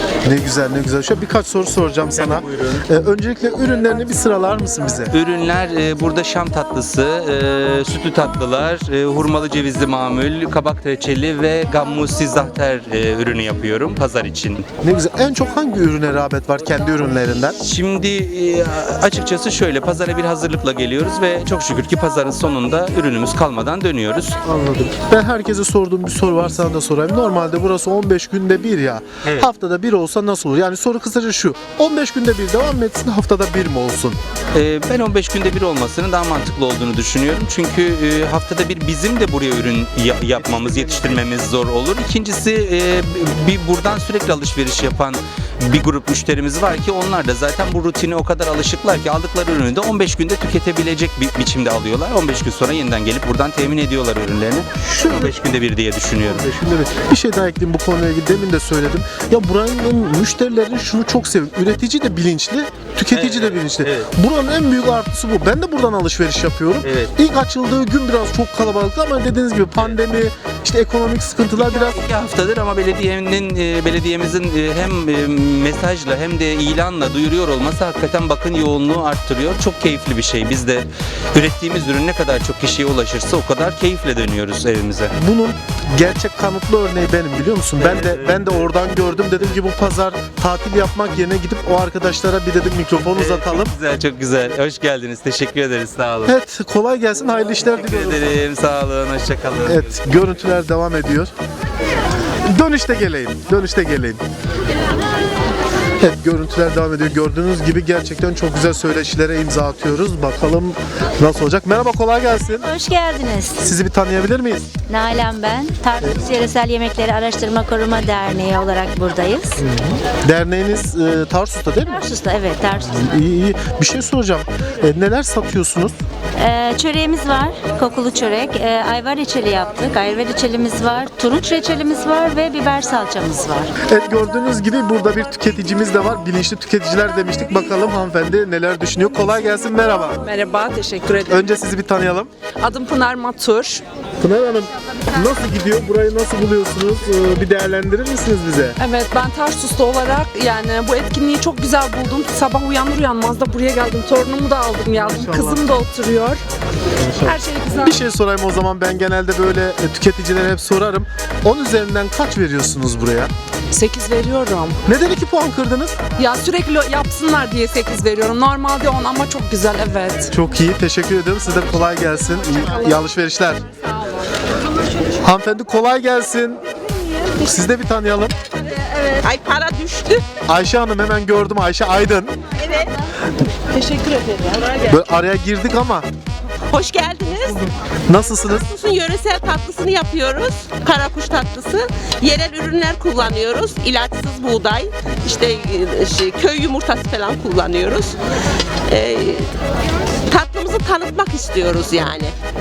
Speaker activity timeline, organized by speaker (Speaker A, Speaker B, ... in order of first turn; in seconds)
Speaker A: 0.2-5.1, 14.8-17.6, 24.4-34.2, 54.9-55.3, 56.2-72.0, 85.1-93.7, 96.2-98.2, 99.6-101.3, 102.5-104.2, 106.0-112.7, 113.6-114.7, 119.7-122.0, 122.9-125.9, 133.9-140.2, 141.3-142.3, 144.2-148.7, 154.9-155.6, 157.0-163.3, 164.8-166.0, 170.3-173.6, 175.2-176.6, 177.4-178.3, 180.5-182.3, 184.9-186.1, 188.1-188.7
Speaker B: 2.3-2.8, 5.1-14.7, 17.6-24.4, 34.5-56.6, 63.1-64.1, 66.8-67.1, 71.5-85.1, 87.8-88.7, 93.1-96.3, 97.7-99.9
Speaker C: 112.6-113.6, 114.9-119.6, 121.8-123.1, 126.3-133.7
Speaker D: 140.2-141.5, 142.6-143.8, 148.8-156.4, 157.2-158.0, 163.7-164.8, 166.2-170.3, 183.7-184.7
Speaker E: 179.1-180.2, 182.6-182.9, 186.7-187.6, 188.4-198.2, 198.9-199.5, 200.3-202.3